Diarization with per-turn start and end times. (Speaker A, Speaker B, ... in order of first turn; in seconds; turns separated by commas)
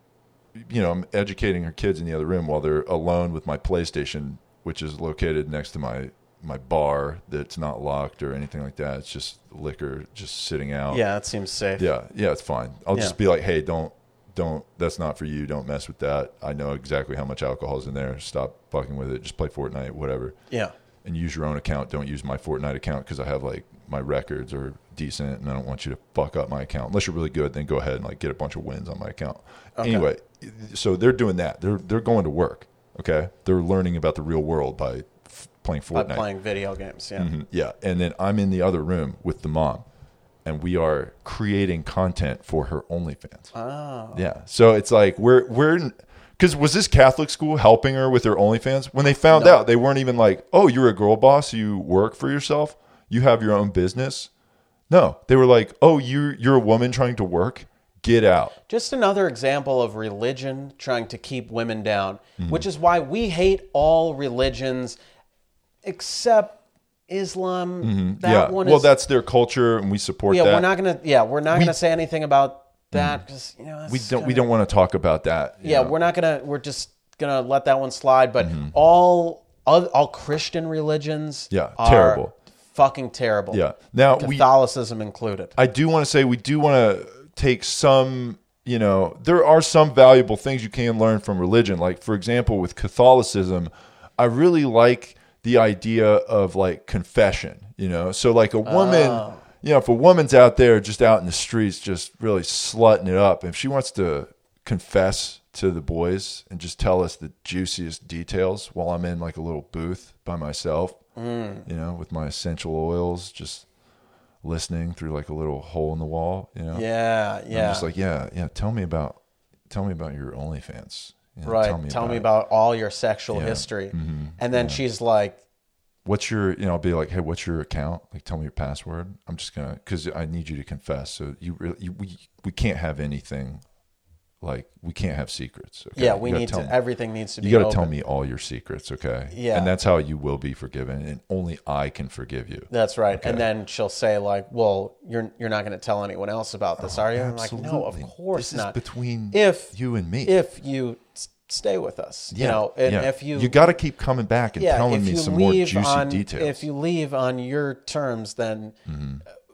Speaker A: 0.6-11.0, Speaker B: 10.9-11.8, Speaker A: 11.8-20.4, Speaker A: 21.0-36.3, Speaker B: 29.8-30.1, Speaker B: 35.9-37.3, Speaker A: 37.2-39.8, Speaker A: 40.4-43.5, Speaker B: 43.5-44.2, Speaker A: 44.1-54.3, Speaker B: 49.3-49.6, Speaker A: 54.9-58.5, Speaker B: 58.7-65.0, Speaker A: 62.4-62.6, Speaker B: 65.8-68.9, Speaker A: 67.8-70.7, Speaker B: 70.3-74.5, Speaker A: 71.5-71.7, Speaker A: 72.9-73.2, Speaker A: 73.9-75.9, Speaker B: 75.6-82.2, Speaker A: 78.4-78.7, Speaker A: 81.5-82.3, Speaker B: 82.7-83.6, Speaker A: 83.5-84.5, Speaker B: 84.2-85.5, Speaker A: 85.6-111.0, Speaker B: 98.7-99.4, Speaker B: 111.2-111.7, Speaker A: 111.7-113.7, Speaker A: 114.4-116.8, Speaker B: 116.7-117.9, Speaker A: 117.5-119.2, Speaker A: 119.7-122.3, Speaker B: 121.4-125.4, Speaker A: 123.3-124.8, Speaker A: 126.0-133.6, Speaker A: 134.4-136.7, Speaker B: 135.9-137.9, Speaker A: 137.4-143.4, Speaker B: 139.3-139.7, Speaker B: 142.7-148.8, Speaker A: 146.8-150.3, Speaker B: 149.3-149.7, Speaker B: 150.2-153.6, Speaker A: 152.3-156.6, Speaker B: 154.6-158.8, Speaker A: 158.8-159.2